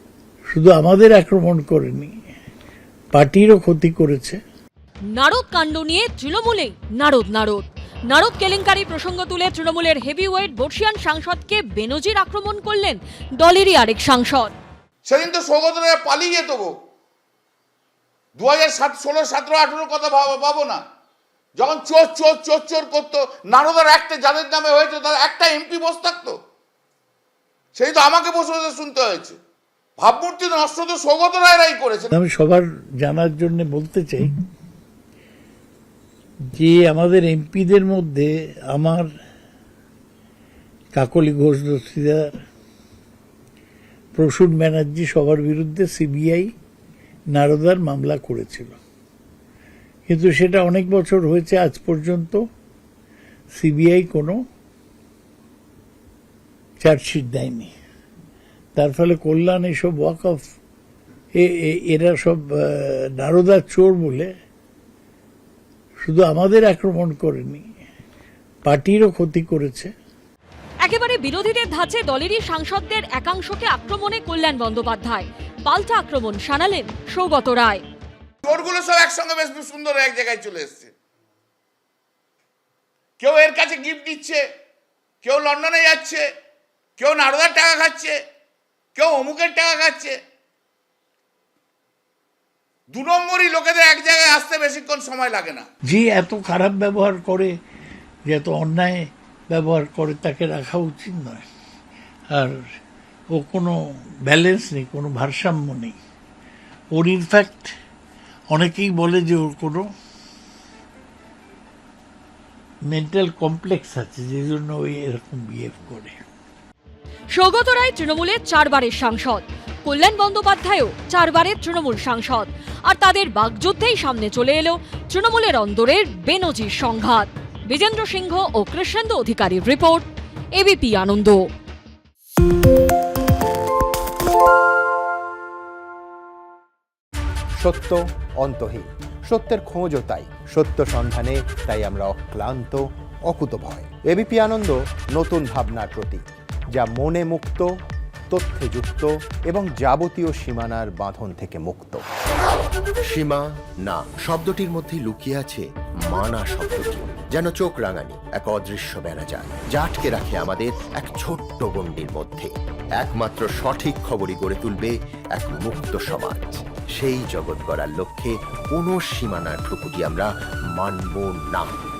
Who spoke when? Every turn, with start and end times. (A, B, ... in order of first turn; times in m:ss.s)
0:00.5-0:02.1 A
0:03.1-0:04.4 A
0:05.1-0:14.5 B
0:15.0-0:16.7 C
0:18.4-0:20.8 C
0:21.6-0:26.4 C
0:27.7-0:29.4 C
0:30.0-0:32.1 C
0:32.1-0:34.3 A
0:36.5-0:39.1 A
0:40.9-0:42.3 A
0:44.1-0:46.5 A
0:47.3-0:48.8 A
0:50.1-0:52.4 A
0:53.5-0:54.4 A
0:56.8-0:57.7 A
0:58.8-1:00.4 A
1:01.4-1:04.3 A
1:06.0-1:07.6 A
1:08.6-1:09.9 A
1:10.8-1:17.8 B
1:18.4-1:20.9 C
1:23.2-1:24.4 C
1:25.2-1:26.2 C
1:27.0-1:28.2 C
1:28.9-1:30.2 C
1:32.9-1:35.6 C
1:35.9-1:37.5 A
1:38.2-1:41.4 A
1:42.3-1:42.6 A
1:43.3-1:46.0 A
1:46.9-1:47.7 A
1:48.5-1:49.9 A
1:52.8-1:56.2 A
1:57.3-2:11.4 B
2:17.6-2:27.7 D
2:28.3-2:32.0 D
2:33.0-2:51.8 E